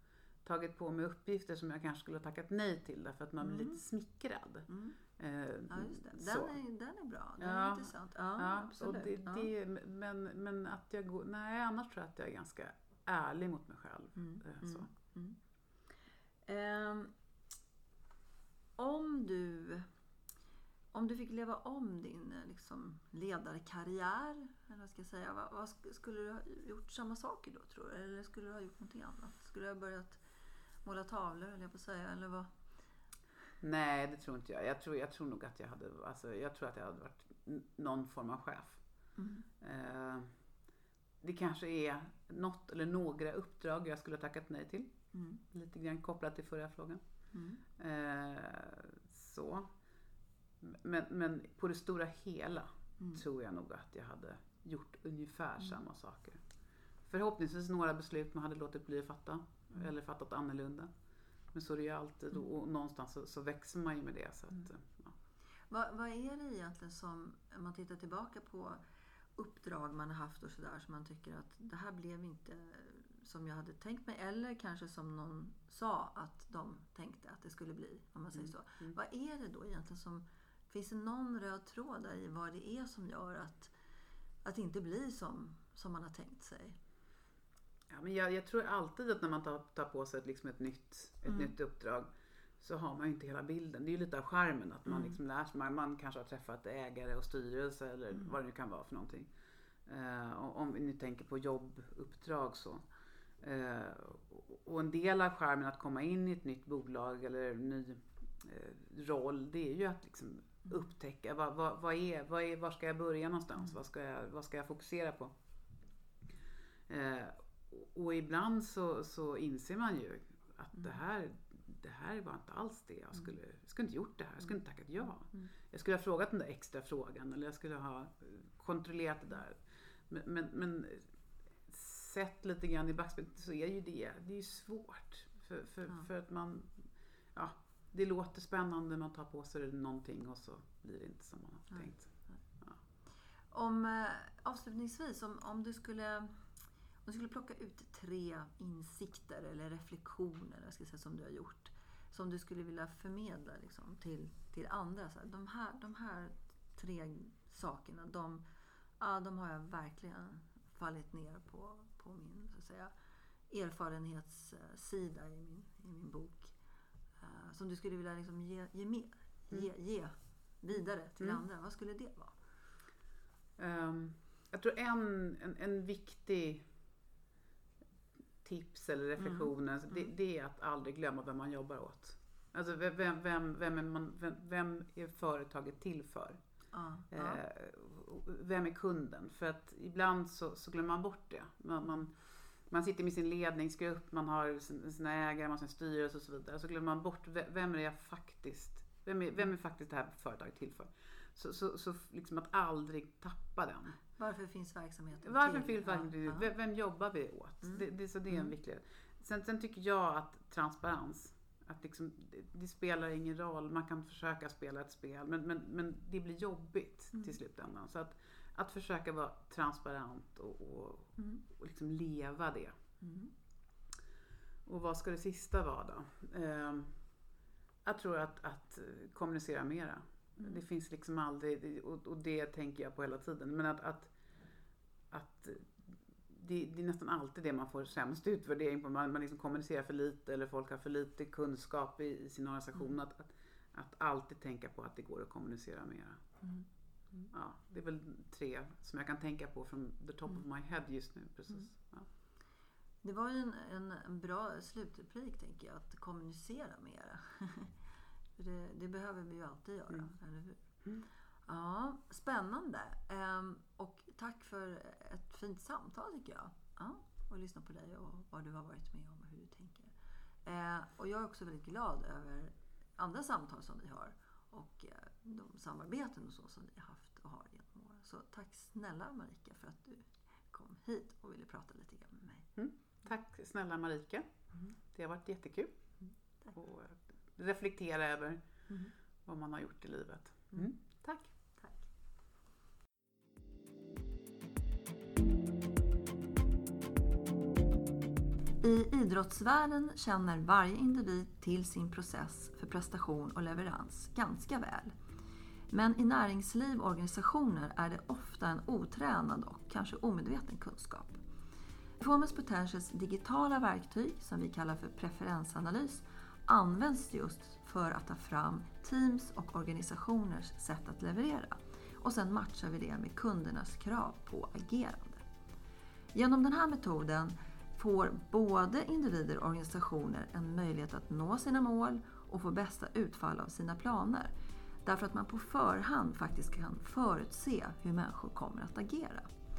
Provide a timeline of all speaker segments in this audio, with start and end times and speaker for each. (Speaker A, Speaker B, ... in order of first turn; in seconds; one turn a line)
Speaker A: 0.4-6.6
Speaker B: 3.4-3.8
Speaker B: 4.7-5.0
Speaker B: 5.7-9.5
Speaker A: 7.4-14.9
Speaker B: 14.2-15.4
Speaker B: 16.5-17.1
Speaker B: 18.8-19.9
Speaker B: 20.9-30.2
Speaker B: 30.9-32.5
Speaker A: 33.6-38.8
Speaker B: 39.2-39.5
Speaker A: 39.6-40.3
Speaker A: 41.2-45.0
Speaker B: 45.1-45.4
Speaker A: 45.5-47.0
Speaker B: 47.3-47.6
Speaker A: 47.8-49.7
Speaker A: 50.6-56.4
Speaker A: 57.1-60.9
Speaker A: 61.5-65.2
Speaker B: 65.7-68.8
Speaker B: 69.4-83.7
Speaker A: 78.4-79.0
Speaker B: 84.5-86.8
Speaker A: 87.9-92.1
Speaker A: 92.6-99.3
Speaker B: 94.9-95.2
Speaker A: 99.9-102.8
Speaker A: 103.4-115.3
Speaker A: 116.9-131.1
Speaker A: 131.7-142.1
Speaker B: 141.7-142.4
Speaker B: 143.5-146.5
Speaker B: 147.1-158.4
Speaker B: 159.0-162.9
Speaker B: 163.5-166.6
Speaker B: 167.2-172.4
Speaker A: 173.6-176.7
Speaker A: 178.4-186.4
Speaker B: 179.2-179.5
Speaker B: 186.7-187.4
Speaker A: 187.1-204.0
Speaker B: 204.2-206.5
Speaker A: 205.2-222.8
Speaker B: 223.0-223.3
Speaker A: 224.7-227.0
Speaker A: 227.8-234.1
Speaker A: 235.1-246.2
Speaker B: 246.4-247.3
Speaker A: 247.3-252.1
Speaker B: 253.0-257.8
Speaker B: 258.4-260.6
Speaker B: 261.5-269.9
Speaker B: 270.4-282.5
Speaker A: 282.6-285.8
Speaker A: 286.5-288.4
Speaker A: 289.2-291.3
Speaker B: 291.6-291.8
Speaker B: 298.6-304.9
Speaker B: 305.7-311.2
Speaker B: 312.0-325.2
Speaker B: 326.1-334.3
Speaker B: 334.9-339.3